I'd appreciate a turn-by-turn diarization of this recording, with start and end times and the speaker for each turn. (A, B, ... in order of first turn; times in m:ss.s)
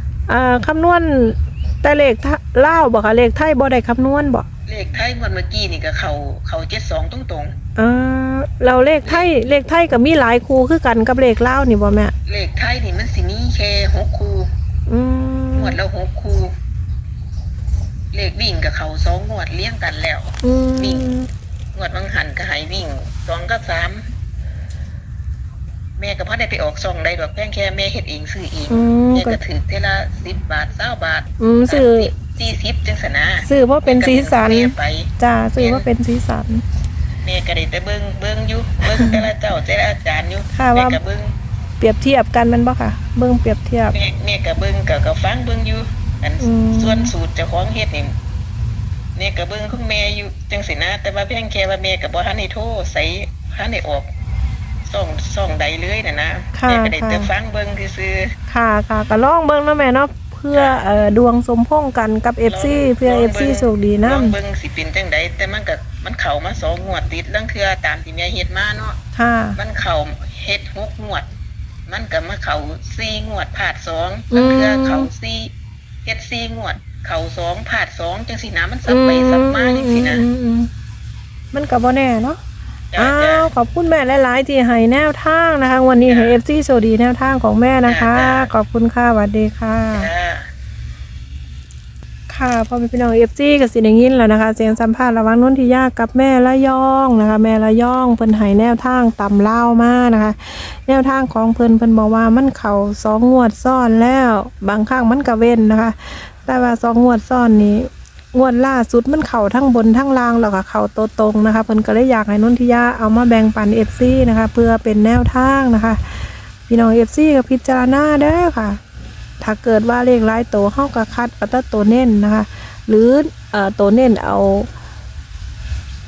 0:00.3-0:04.4 A
0:04.7-0:07.5 B
0:07.8-0:12.1 A
0:09.0-0:09.3 B
0:12.3-0:14.5 B
0:14.9-0:15.8 A
0:15.5-0:16.5 B
0:18.1-0:21.1 B
0:20.4-0:21.3 A
0:21.7-0:24.0 B
0:26.0-0:35.8 B
0:28.7-0:29.4 A
0:31.4-0:32.1 A
0:33.4-0:36.6 A
0:37.2-0:41.3 B
0:40.5-0:41.0 A
0:41.8-0:44.0 A
0:43.9-0:48.1 B
0:46.4-0:47.1 A
0:49.2-0:54.1 B
0:54.8-0:58.3 B
0:56.5-0:57.3 A
0:58.5-1:04.4 A
1:00.5-1:00.8 B
1:02.5-1:09.0 B
1:09.2-1:09.6 A
1:09.6-1:11.3 B
1:11.9-1:15.5 B
1:14.3-1:15.1 A
1:16.0-1:20.2 B
1:18.9-1:20.7 A
1:21.5-1:22.4 A
1:22.9-1:23.5 B
1:23.0-1:30.1 A
1:26.0-1:26.4 B
1:27.8-1:28.5 B
1:29.9-1:30.5 B
1:32.3-1:56.1 A
1:56.7-1:58.8 A
1:59.4-2:04.7 A